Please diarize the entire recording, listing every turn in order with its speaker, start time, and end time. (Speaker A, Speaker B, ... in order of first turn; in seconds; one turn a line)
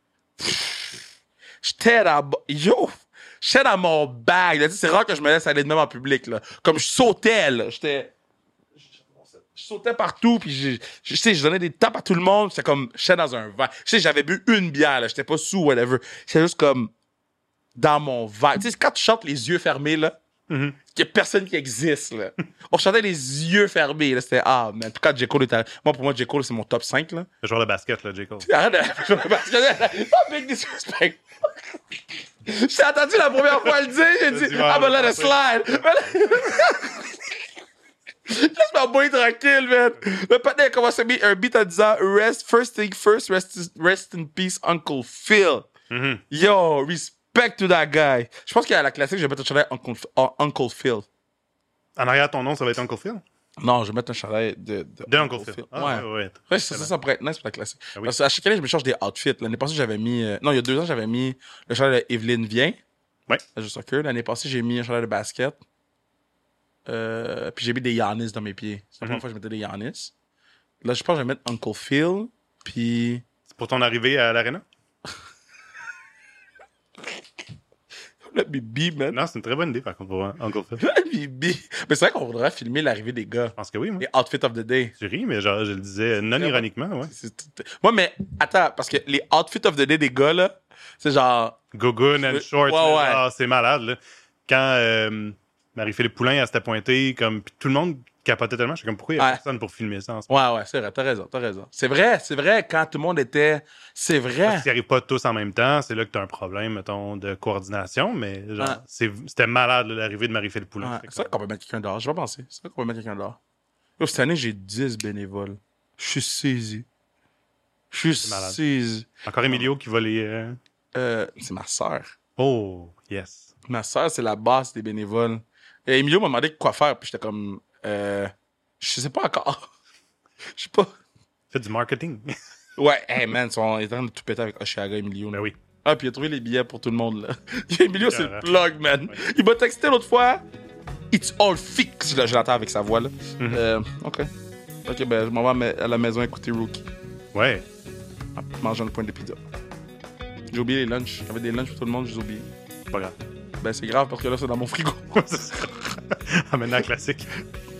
Speaker A: 0.4-1.0
Speaker A: 1.6-8.1
Speaker A: 9.5-16.9
Speaker A: 17.8-20.1
Speaker B: 20.5-20.8
Speaker A: 20.9-27.3
Speaker B: 27.4-28.5
Speaker A: 28.4-31.2
Speaker A: 32.5-37.4
Speaker B: 34.3-35.4
Speaker A: 38.3-45.7
Speaker B: 45.9-46.2
Speaker A: 46.3-51.0
Speaker B: 52.0-53.2
Speaker A: 53.6-62.8
Speaker B: 55.1-56.9
Speaker A: 63.5-65.6
Speaker A: 66.8-70.1
Speaker A: 70.8-73.2
Speaker B: 73.5-74.6
Speaker A: 78.2-79.2
Speaker B: 79.1-80.8
Speaker A: 80.8-84.9
Speaker B: 83.6-84.0
Speaker B: 85.0-87.1
Speaker A: 86.3-91.6
Speaker B: 91.7-100.3
Speaker A: 92.2-93.2
Speaker A: 100.3-104.7
Speaker B: 104.5-111.3
Speaker A: 110.8-113.4
Speaker A: 114.0-116.9
Speaker A: 117.9-119.7
Speaker B: 118.2-118.6
Speaker B: 119.2-120.6
Speaker A: 120.9-122.1
Speaker B: 122.4-123.5
Speaker A: 123.7-129.7
Speaker A: 130.4-130.9
Speaker B: 131.5-132.3
Speaker A: 132.8-140.4
Speaker B: 138.0-138.5
Speaker A: 141.1-144.3
Speaker A: 144.8-146.8
Speaker B: 147.3-147.6
Speaker A: 148.3-149.4
Speaker A: 150.5-152.5
Speaker A: 153.6-155.3
Speaker B: 155.1-157.4